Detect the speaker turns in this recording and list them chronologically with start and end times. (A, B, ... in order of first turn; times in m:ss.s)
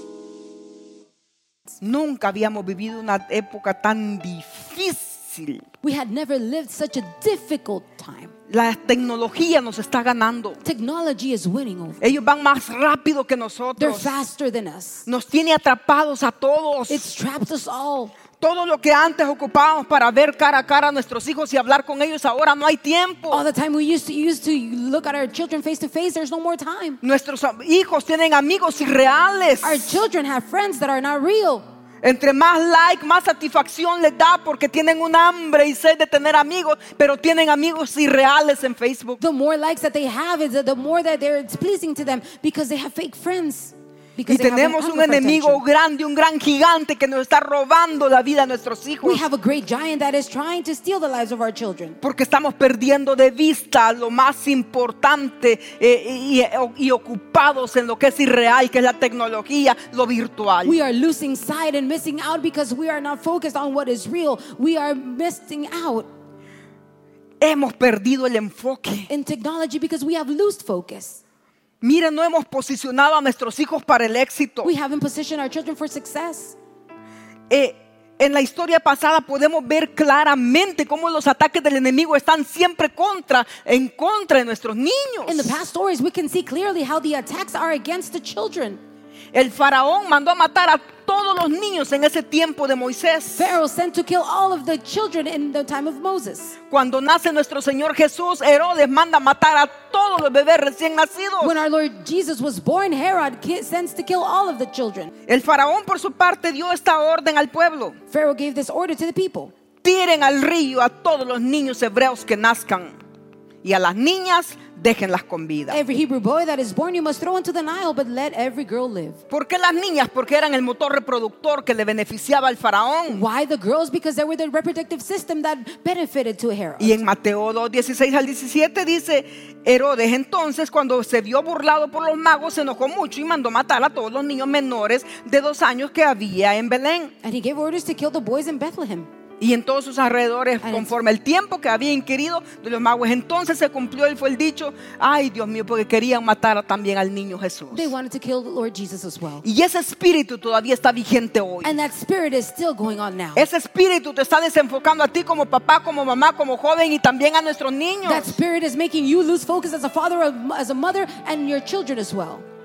0:01.8-0:05.6 A
0:05.8-0:08.3 B
0:08.5-0:10.6 A
0:10.6-0:12.0 B
0:12.0-0:14.1 A
0:13.8-0:15.1 B
0:15.1-0:17.1 A
0:16.9-0:18.1 B
0:18.4-0:23.4 A
0:23.3-0:27.0 B
0:27.0-0:30.0 A
0:29.6-0:31.6 B
0:32.0-0:39.2 A
0:39.2-0:45.6 B
0:44.3-0:49.2 A
0:49.0-0:52.0 B
0:52.0-1:00.8 A
1:00.6-1:06.1 B
1:07.4-1:09.1 A
1:09.1-1:11.2 B
1:11.8-1:14.7 A
1:14.6-1:16.6 B
1:17.5-1:25.6 A
1:25.3-1:28.8 B
1:29.3-1:33.5 A
1:33.4-1:36.6 B
1:36.7-1:41.6 A
1:41.4-1:45.1 B
1:45.3-1:48.0 A
1:48.1-1:49.5 B
1:49.8-1:52.9 A
1:53.6-1:55.8 A
1:55.7-1:59.2 B
1:59.3-2:03.2 A
2:03.1-2:07.0 B
2:06.8-2:17.1 A
2:17.2-2:19.1 B
2:19.4-2:27.9 A
2:20.6-2:20.9 B
2:27.7-2:29.4 B
2:29.4-2:31.8 A
2:31.6-2:33.5 B
2:33.4-2:38.4 A
2:38.0-2:42.4 B